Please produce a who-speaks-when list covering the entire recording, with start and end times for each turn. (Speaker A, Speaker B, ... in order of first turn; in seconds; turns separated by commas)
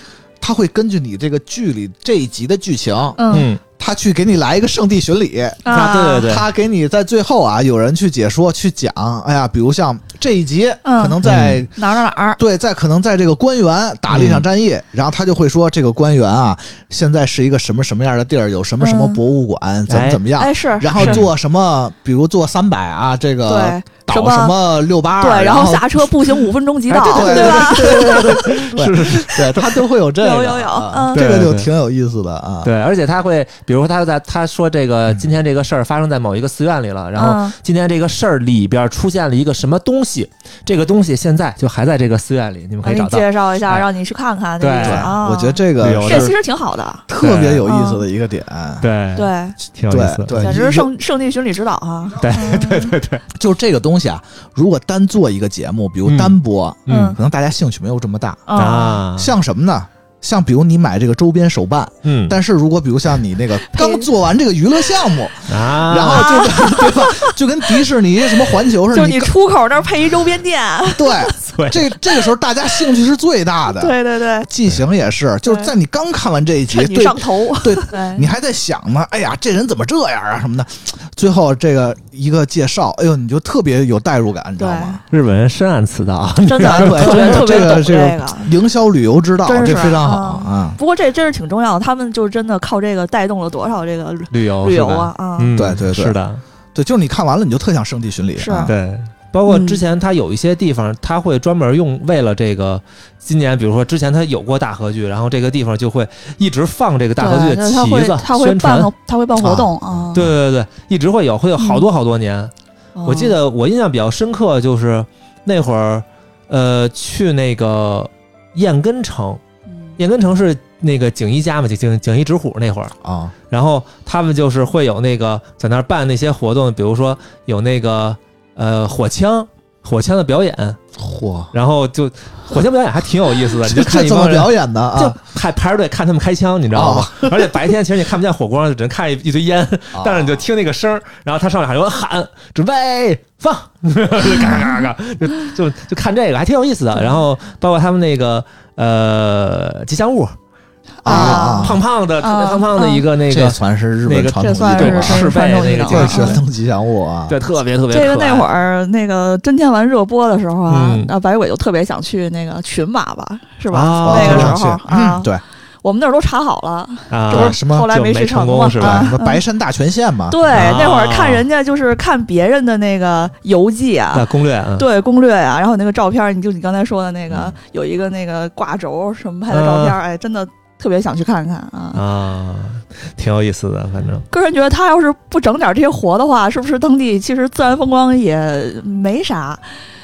Speaker A: 0.4-11.7, Speaker B: 3.2-3.5, Speaker C: 3.3-3.6, Speaker B: 5.6-6.3, Speaker C: 5.7-6.5, Speaker B: 10.8-11.2, Speaker C: 11.2-11.6, Speaker B: 11.8-12.4, Speaker A: 12.4-26.1, Speaker C: 14.1-14.4, Speaker B: 18.8-19.2, Speaker C: 19.9-20.2, Speaker B: 20.4-21.2, Speaker C: 21.0-21.3, Speaker B: 23.5-24.6, Speaker B: 25.1-28.4, Speaker C: 26.9-29.9, Speaker A: 27.0-32.7, Speaker B: 30.2-31.2, Speaker C: 31.1-31.7, Speaker C: 32.6-43.9, Speaker B: 37.2-37.5, Speaker B: 42.8-47.0, Speaker C: 44.6-45.2, Speaker A: 44.8-46.4, Speaker C: 45.8-46.4, Speaker A: 47.1-48.9, Speaker C: 47.2-47.6, Speaker B: 47.7-48.0, Speaker C: 48.8-50.6, Speaker B: 49.2-49.6, Speaker A: 49.9-50.9, Speaker B: 50.4-53.0, Speaker C: 52.2-53.2, Speaker A: 53.3-58.5, Speaker C: 56.1-56.4, Speaker B: 56.9-57.2, Speaker C: 56.9-57.2, Speaker B: 58.5-59.0, Speaker C: 58.5-59.4, Speaker A: 59.2-69.3, Speaker C: 62.0-62.4, Speaker B: 63.7-64.1, Speaker C: 65.5-66.8, Speaker B: 66.1-67.3, Speaker B: 68.9-71.3, Speaker A: 71.0-85.0, Speaker C: 71.5-71.8, Speaker B: 73.7-74.5, Speaker B: 75.5-75.7, Speaker B: 76.7-78.3, Speaker B: 84.6-85.0, Speaker C: 85.1-88.0, Speaker B: 86.4-88.5, Speaker A: 86.6-90.8, Speaker B: 89.5-95.5, Speaker C: 94.3-96.4, Speaker A: 95.5-96.2, Speaker A: 96.7-98.7, Speaker B: 98.4-98.7, Speaker C: 98.7-108.9, Speaker B: 99.5-99.8, Speaker B: 107.2-110.3, Speaker A: 109.4-109.7, Speaker C: 110.1-112.5, Speaker B: 111.6-111.8, Speaker B: 113.0-113.3, Speaker C: 113.0-119.4, Speaker C: 120.0-123.0, Speaker A: 123.0-123.3, Speaker C: 123.5-130.8, Speaker A: 131.0-131.5, Speaker C: 131.5-150.3, Speaker A: 133.6-135.2, Speaker A: 136.7-137.5, Speaker A: 139.9-140.4, Speaker B: 144.4-144.8, Speaker B: 151.0-153.0, Speaker A: 151.0-151.8, Speaker C: 151.1-156.4, Speaker A: 153.3-157.4, Speaker B: 154.4-156.4, Speaker C: 157.3-158.5, Speaker B: 157.9-165.3, Speaker C: 160.7-161.1, Speaker C: 163.7-164.6, Speaker A: 164.0-165.4, Speaker B: 165.8-169.4, Speaker C: 167.1-169.1, Speaker A: 167.3-167.9, Speaker A: 168.8-170.5, Speaker B: 170.3-182.0, Speaker C: 170.5-171.4, Speaker C: 174.1-174.9, Speaker C: 179.5-180.0, Speaker C: 181.9-184.2, Speaker B: 184.3-189.6